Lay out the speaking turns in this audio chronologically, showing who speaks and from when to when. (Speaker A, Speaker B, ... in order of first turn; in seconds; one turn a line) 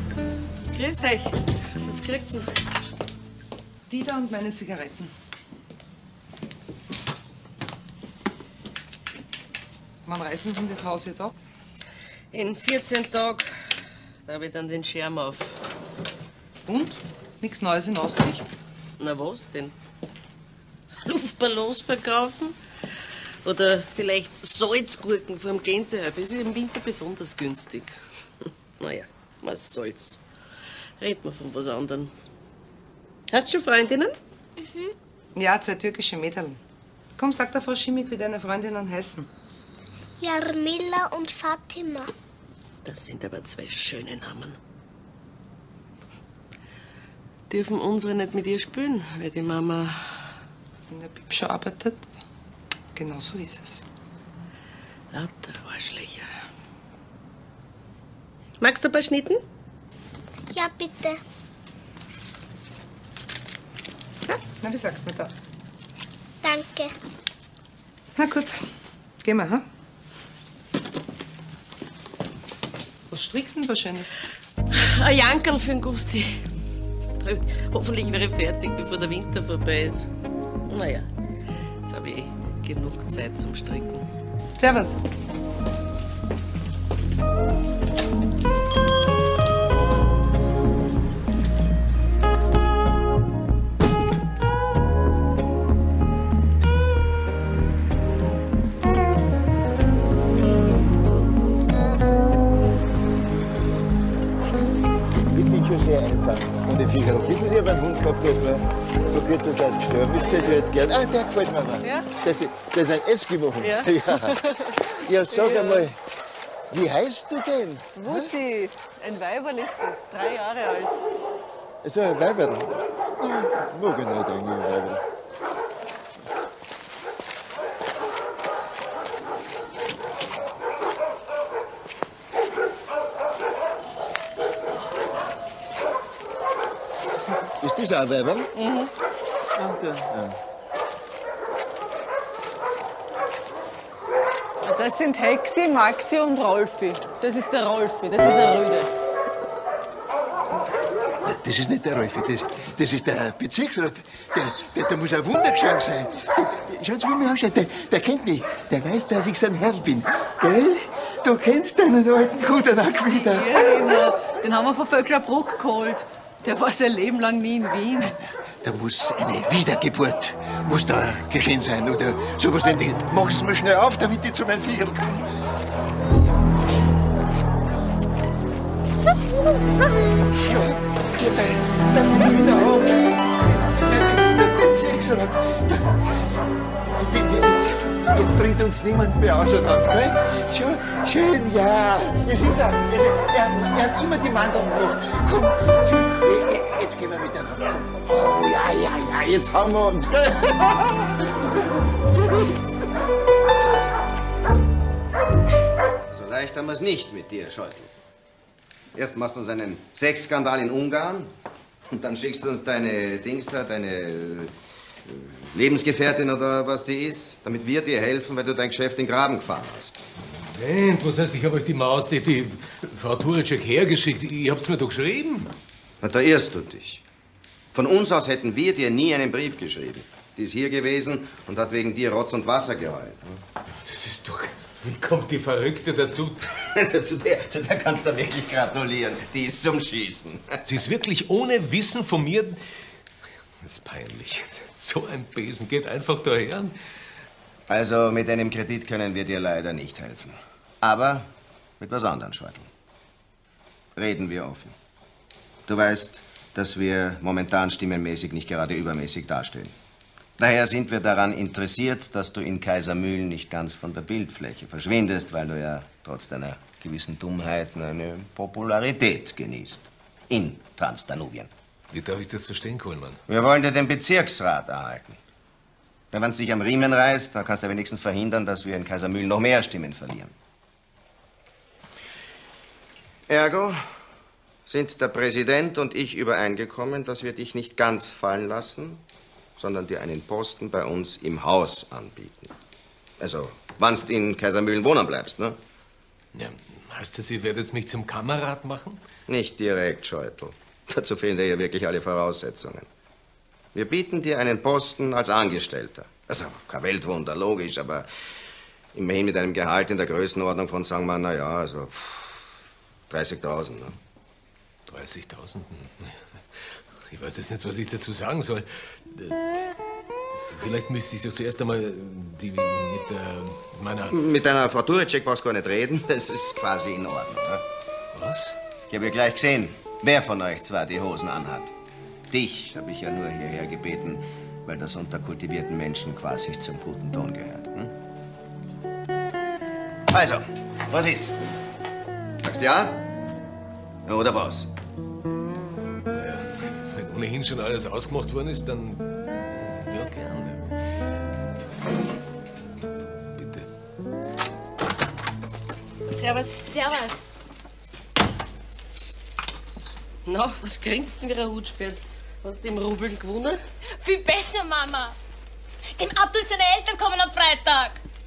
Speaker A: 0.7-2.5
Speaker B: 3.9-5.1
Speaker B: 10.1-11.3
Speaker A: 12.3-13.6
Speaker A: 14.2-15.6
Speaker B: 16.6-18.5
Speaker A: 19.0-19.7
Speaker A: 21.1-22.6
Speaker A: 23.4-30.2
Speaker A: 31.0-32.1
Speaker A: 33.3-34.1
Speaker C: 34.6-34.9
Speaker B: 35.4-36.6
Speaker B: 37.2-39.3
Speaker C: 40.2-42.1
Speaker A: 42.8-44.6
Speaker A: 47.5-50.0
Speaker B: 50.9-52.0
Speaker B: 52.9-53.8
Speaker A: 55.1-56.3
Speaker A: 58.6-59.4
Speaker C: 60.5-61.2
Speaker B: 64.6-65.3
Speaker C: 66.4-66.9
Speaker B: 68.2-68.6
Speaker B: 69.2-69.6
Speaker B: 73.1-74.1
Speaker A: 74.7-76.4
Speaker A: 77.2-80.1
Speaker A: 80.7-81.1
Speaker A: 81.8-84.0
Speaker B: 84.6-85.0
Speaker D: 105.3-116.0
Speaker E: 111.8-112.1
Speaker E: 113.6-114.7
Speaker E: 115.3-115.8
Speaker D: 116.7-118.4
Speaker E: 118.0-121.0
Speaker D: 121.8-125.0
Speaker D: 137.6-138.5
Speaker E: 138.6-138.9
Speaker D: 139.6-140.3
Speaker E: 144.6-148.9
Speaker D: 151.2-164.0
Speaker E: 163.1-168.2
Speaker D: 168.6-175.2
Speaker D: 180.3-186.0
Speaker D: 186.8-201.1
Speaker F: 206.1-207.9
Speaker F: 208.9-211.3
Speaker F: 211.9-214.5
Speaker F: 215.1-220.0
Speaker G: 220.3-225.5
Speaker F: 226.0-227.0
Speaker F: 227.7-233.4
Speaker G: 233.7-236.5
Speaker F: 236.7-240.6
Speaker G: 240.7-242.6
Speaker G: 243.6-246.7
Speaker F: 247.7-251.2
Speaker F: 251.8-252.7
Speaker F: 253.9-254.7
Speaker F: 255.7-259.7
Speaker F: 260.4-271.5
Speaker G: 271.9-273.2
Speaker F: 273.3-275.2
Speaker F: 276.1-280.3
Speaker F: 283.3-283.8
Speaker F: 284.7-289.0
Speaker F: 289.6-292.5
Speaker F: 293.2-295.6
Speaker G: 296.3-299.0
Speaker F: 299.3-302.9
Speaker F: 303.7-308.1
Speaker F: 308.9-312.4
Speaker F: 313.1-313.9
Speaker G: 314.9-316.4
Speaker G: 317.1-319.4
Speaker G: 320.5-324.1
Speaker F: 324.1-327.6
Speaker G: 328.1-328.5
Speaker F: 328.9-331.7
Speaker F: 332.3-337.9
Speaker F: 340.1-341.4
Speaker F: 342.4-343.0
Speaker F: 344.1-344.7
Speaker G: 346.1-350.7
Speaker G: 353.3-353.7
Speaker H: 356.5-357.1
Speaker A: 360.2-363.6
Speaker H: 364.0-365.1
Speaker H: 365.9-368.0